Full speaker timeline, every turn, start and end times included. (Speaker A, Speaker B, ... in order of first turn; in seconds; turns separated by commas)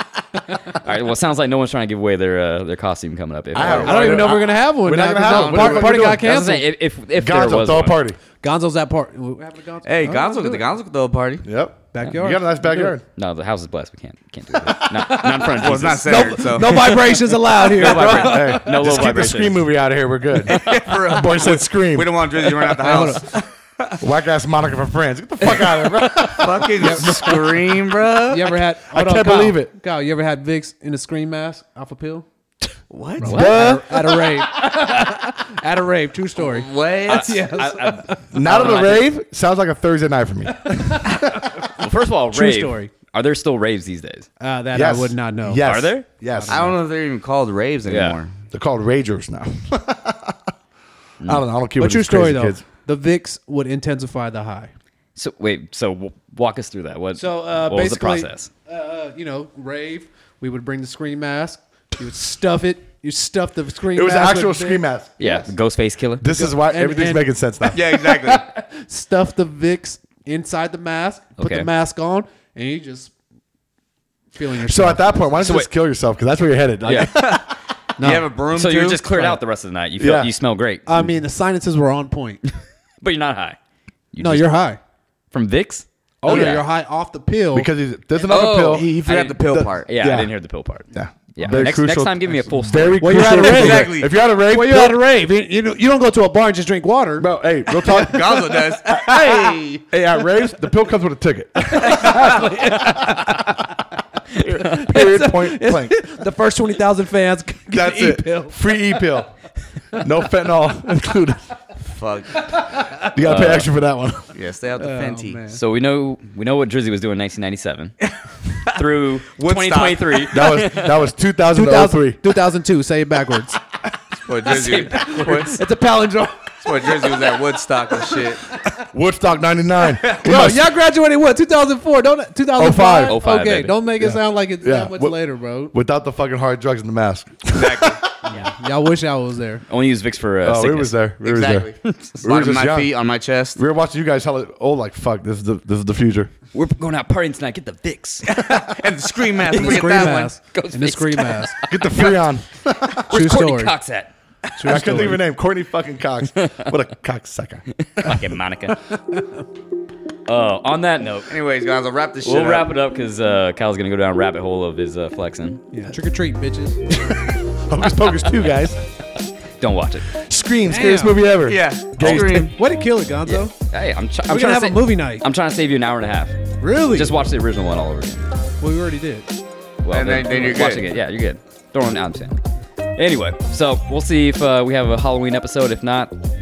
Speaker A: 0.7-4.3, Speaker B: 3.5-6.3, Speaker C: 3.5-4.4, Speaker D: 3.8-6.7, Speaker C: 5.2-5.9, Speaker A: 5.8-8.0, Speaker B: 7.2-8.2, Speaker D: 8.4-10.6, Speaker C: 9.8-11.4, Speaker B: 11.4-13.0, Speaker D: 11.9-13.0, Speaker A: 13.2-16.9, Speaker D: 14.6-18.8, Speaker C: 15.6-17.1, Speaker A: 17.6-19.7, Speaker B: 17.6-22.2, Speaker C: 20.5-24.0, Speaker A: 20.5-20.9, Speaker D: 22.8-23.2, Speaker B: 24.0-27.8, Speaker C: 26.4-28.6, Speaker D: 26.8-27.2, Speaker D: 28.3-32.3, Speaker B: 28.9-29.7, Speaker C: 32.9-33.4, Speaker D: 33.2-38.1, Speaker A: 33.2-33.6, Speaker B: 33.2-34.4, Speaker C: 36.4-37.5, Speaker A: 37.1-39.1, Speaker B: 38.3-41.6, Speaker C: 38.5-38.9, Speaker D: 40.6-41.2, Speaker A: 41.6-44.3, Speaker D: 42.3-42.9, Speaker D: 44.4-45.7, Speaker B: 44.7-46.7, Speaker A: 45.6-46.1, Speaker D: 46.3-46.8, Speaker C: 46.5-48.3, Speaker A: 47.9-48.2, Speaker B: 48.5-50.4, Speaker B: 51.2-52.6, Speaker D: 51.8-54.7, Speaker A: 55.2-58.5, Speaker D: 57.2-65.5, Speaker B: 63.9-65.1, Speaker A: 65.2-66.3, Speaker B: 66.2-68.2, Speaker D: 66.2-73.1, Speaker C: 67.7-68.5, Speaker A: 71.4-71.7, Speaker D: 74.3-75.3, Speaker B: 74.6-77.5, Speaker A: 75.4-75.7, Speaker A: 76.8-77.1, Speaker C: 77.1-77.4, Speaker D: 78.0-78.3, Speaker C: 78.0-79.0, Speaker A: 78.5-80.9, Speaker D: 79.0-79.4, Speaker B: 80.0-80.3, Speaker D: 80.9-82.4, Speaker A: 83.0-83.6, Speaker A: 84.1-84.5, Speaker D: 84.2-84.8, Speaker A: 85.3-86.7, Speaker B: 86.2-86.7, Speaker D: 86.3-87.7, Speaker B: 87.5-88.9, Speaker A: 88.2-93.3, Speaker C: 88.6-89.9, Speaker B: 89.5-90.3, Speaker B: 90.9-95.0, Speaker D: 93.0-97.3, Speaker C: 93.2-94.1, Speaker B: 97.2-99.4, Speaker C: 97.8-99.8, Speaker D: 99.0-99.8, Speaker B: 99.9-103.4, Speaker D: 101.7-103.8, Speaker D: 104.4-108.8, Speaker B: 104.5-106.0, Speaker B: 107.7-109.3, Speaker B: 109.9-111.5, Speaker C: 111.8-112.5, Speaker D: 112.5-113.0, Speaker B: 113.0-114.3, Speaker A: 113.2-113.7, Speaker C: 114.3-115.4, Speaker D: 114.8-115.6, Speaker A: 115.5-118.0, Speaker A: 118.6-121.0, Speaker C: 119.3-120.5, Speaker B: 120.3-122.2, Speaker D: 121.5-123.6, Speaker C: 124.1-125.6, Speaker A: 124.5-125.6, Speaker D: 125.3-127.2, Speaker C: 126.6-128.5, Speaker B: 128.8-130.7, Speaker D: 130.2-135.7, Speaker B: 132.6-133.2, Speaker A: 133.0-133.8, Speaker B: 134.0-135.2, Speaker B: 135.7-138.1, Speaker C: 137.5-138.1, Speaker D: 138.3-139.6, Speaker A: 139.7-140.9, Speaker B: 140.4-142.9, Speaker C: 141.2-143.6, Speaker A: 141.8-142.2, Speaker B: 143.6-146.3, Speaker A: 146.5-148.5, Speaker C: 148.3-150.4, Speaker A: 149.5-152.2, Speaker D: 149.5-151.6, Speaker B: 151.7-153.0, Speaker A: 152.9-154.1, Speaker D: 153.1-153.8, Speaker D: 154.6-155.2, Speaker B: 154.6-158.2, Speaker A: 154.6-155.1, Speaker A: 157.9-158.8, Speaker A: 160.3-161.3, Speaker C: 161.3-162.7, Speaker A: 162.2-165.6, Speaker D: 165.7-166.8, Speaker B: 166.9-168.8, Speaker A: 169.6-170.1, Speaker B: 170.1-172.5, Speaker D: 170.7-171.3, Speaker C: 171.4-172.6, Speaker A: 172.0-172.5, Speaker D: 172.5-173.5, Speaker A: 173.3-178.2, Speaker D: 174.3-175.2, Speaker D: 176.6-177.1, Speaker D: 178.6-179.3, Speaker A: 179.8-182.4, Speaker C: 179.9-180.9, Speaker A: 182.9-186.1